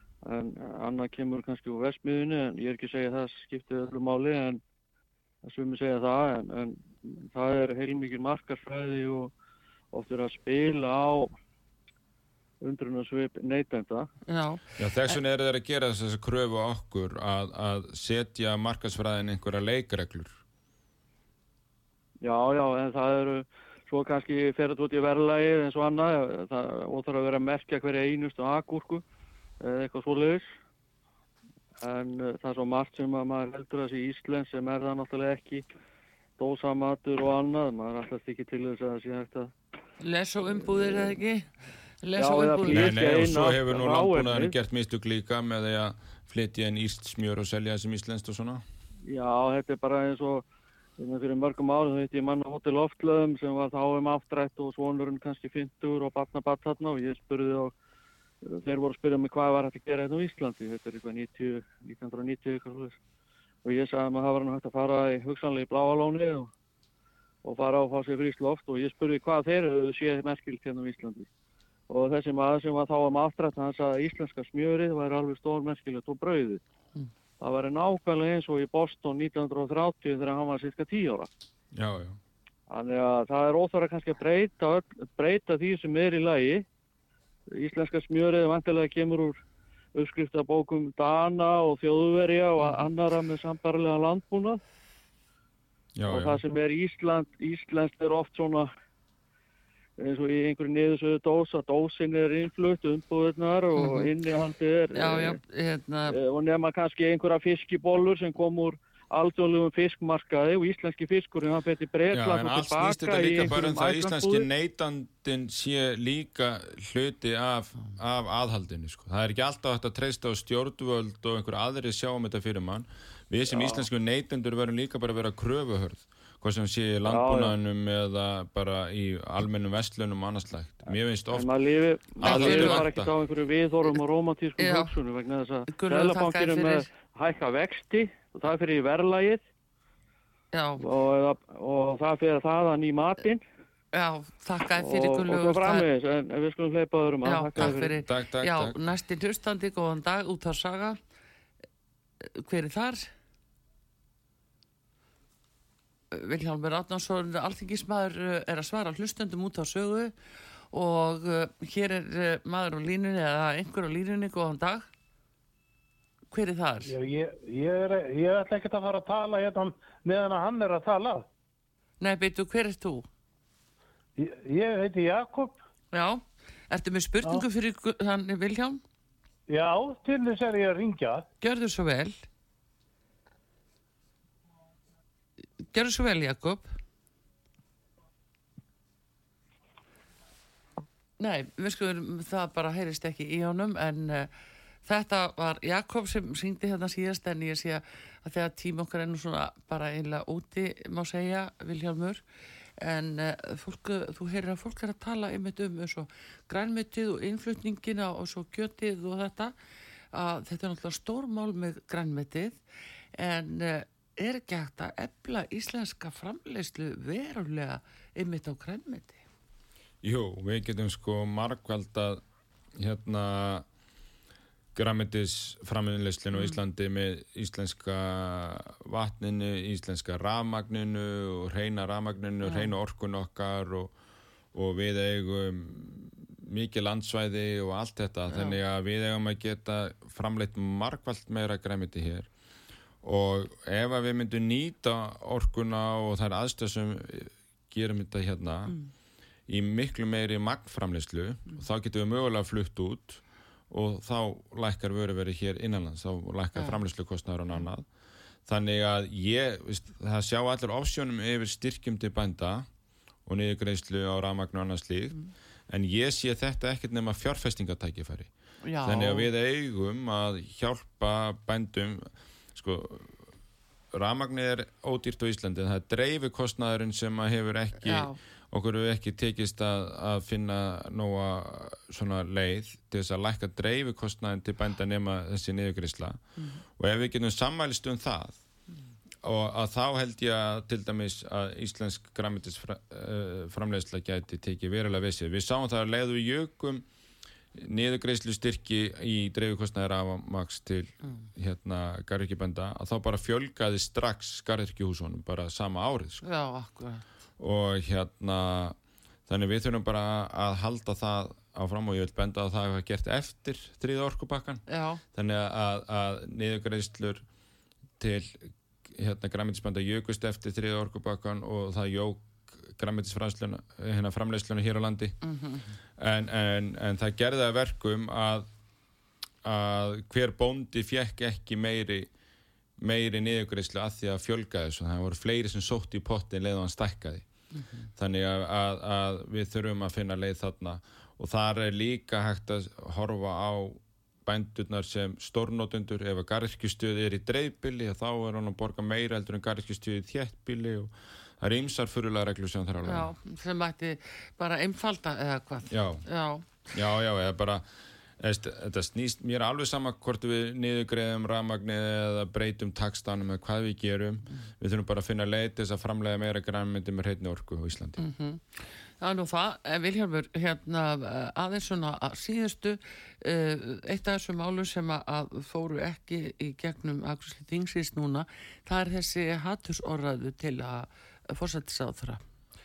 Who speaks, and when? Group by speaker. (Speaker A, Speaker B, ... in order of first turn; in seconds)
Speaker A: 0.2-4.6, 5.4-9.3, 9.9-11.3, 12.6-14.1, 22.2-29.0, 29.6-30.4, 31.8-35.6, 36.4-39.5, 40.6-41.2, 42.2-44.5, 49.0-50.4, 51.0-57.7, 58.4-63.0, 63.6-66.5, 67.4-71.3, 71.9-76.6, 77.4-81.3, 82.7-86.6, 87.5-89.4, 89.9-94.6, 96.1-98.7, 100.0-105.4, 106.1-114.5, 123.5-123.8, 127.1-127.5, 131.3-139.4, 140.8-143.4, 144.7-147.9
Speaker B: 14.3-15.1, 40.0-41.5, 42.0-43.0, 92.6-92.9, 103.8-104.1, 104.9-106.2, 132.2-132.8, 134.6-134.9, 135.7-136.8, 140.5-140.8, 143.9-145.9, 147.2-151.0, 152.2-153.1, 156.1-160.1, 160.7-164.9, 166.3-166.9, 172.0-173.1, 175.9-178.8, 181.4-182.2, 185.7-186.7, 191.2-194.3, 194.8-202.2, 202.8-209.5, 210.1-212.6, 213.2-219.2, 226.3-226.6, 232.4-232.7, 238.3-238.6, 256.6-256.8, 268.6-269.3, 277.8-278.2, 286.4-286.6, 306.2-307.0, 314.7-315.0, 325.2-325.8, 337.5-337.9, 352.8-356.5, 368.0-382.2
Speaker C: 14.8-20.4, 42.7-48.6, 81.7-82.2, 96.0-96.4, 112.1-131.5, 132.2-133.1, 147.6-148.8, 220.0-222.2, 222.8-223.7, 224.7-233.9, 234.5-242.3, 243.0-248.8, 249.5-257.9, 258.5-262.7, 263.2-265.2, 265.7-268.3, 268.8-273.2, 273.9-286.2, 286.8-288.4, 289.2-296.8, 297.5-306.2, 307.4-308.8, 309.3-317.2, 318.0-325.2, 326.0-328.5, 329.4-332.1, 332.8-337.2, 337.9-353.1, 355.7-356.0, 356.7-357.7, 358.2-368.0
Speaker D: 166.8-171.3, 174.2-175.6, 179.5-181.2